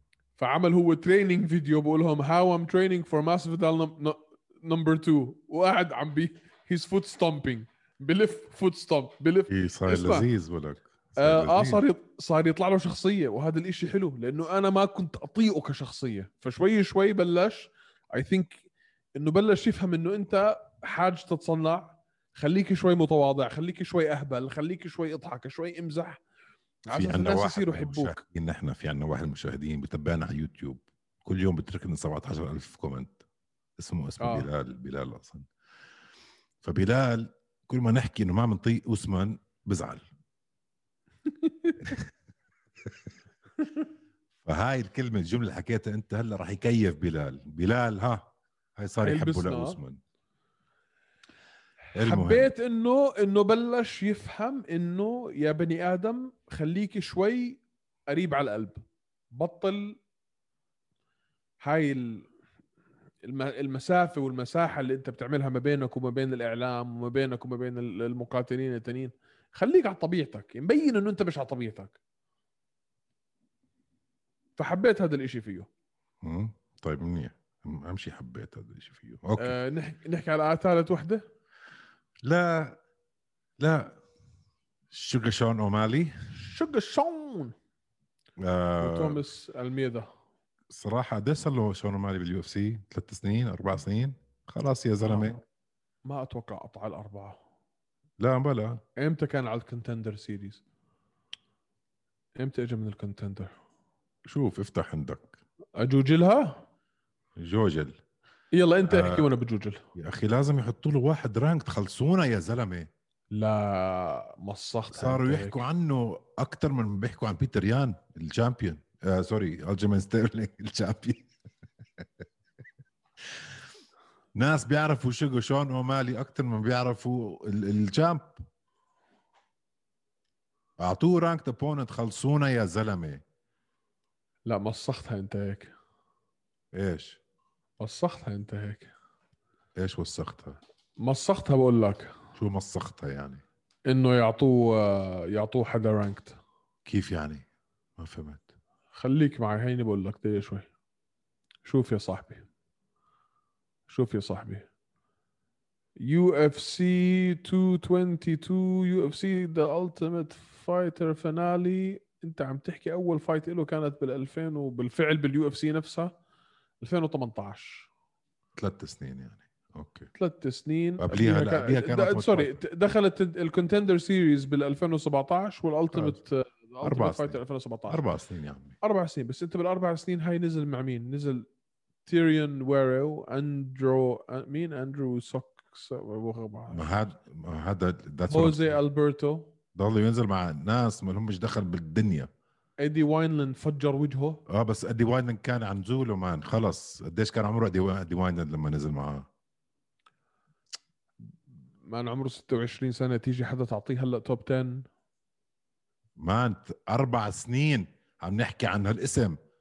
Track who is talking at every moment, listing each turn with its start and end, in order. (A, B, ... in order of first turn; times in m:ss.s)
0:00.4-0:10.3 A
0:09.5-0:11.8 B
0:11.2-0:18.6 A
0:19.2-0:26.2 A
0:26.9-0:28.2 A
0:26.9-0:33.2 B
0:33.8-0:35.5 B
0:34.2-0:34.5 A
0:36.6-0:40.1 B
0:41.3-0:42.0 A
0:44.4-0:50.0 B
0:49.0-0:49.8 A
0:51.9-0:58.8 A
0:52.0-0:52.5 B
0:59.3-1:00.0 A
1:01.6-1:02.3 A
1:03.2-1:12.0 A
1:14.6-1:15.7 A
1:16.2-1:19.6 B
1:19.4-1:21.2 A
1:22.2-1:22.8 B
1:23.6-1:24.0 B
1:24.9-1:26.1 B
1:26.3-1:27.6 A
1:28.4-1:29.2 B
1:28.8-1:30.1 A
1:30.7-1:35.4 B
1:35.1-1:35.4 A
1:36.0-1:37.4 A
1:38.2-1:38.8 B
1:39.0-1:40.6 A
1:42.4-1:43.5 A
1:44.3-1:45.4 B
1:45.8-1:46.6 A
1:47.4-1:48.0 B
1:48.5-1:49.8 A
1:48.9-1:49.3 B
1:50.0-1:52.9 B
1:53.3-1:55.6 A
1:54.9-2:01.3 B
2:04.4-2:08.4 B
2:10.8-2:13.2 B
2:14.5-2:15.7 A
2:16.7-2:17.2 B
2:17.8-2:18.9 A
2:19.8-2:20.6 B
2:21.0-2:22.1 A
2:22.4-2:23.4 B
2:23.9-2:26.4 A
2:26.8-2:27.4 B
2:28.0-2:28.5 B
2:28.9-2:30.7 A
2:31.6-2:32.4 A
2:33.9-2:34.7 A
2:36.0-2:46.1 A
2:46.8-2:47.9 A
2:48.6-2:50.1 B
2:50.2-2:58.0 A
2:51.0-2:52.6 B
2:55.9-2:56.2 B
2:56.8-2:57.4 B
2:57.9-2:58.8 B
2:58.8-3:01.5 A
3:02.1-3:06.9 A
3:06.7-3:08.8 B
3:08.3-3:09.5 A
3:09.8-3:12.3 B
3:12.8-3:14.4 A
3:14.5-3:19.3 B
3:21.9-3:24.9 A
3:26.2-3:29.4 B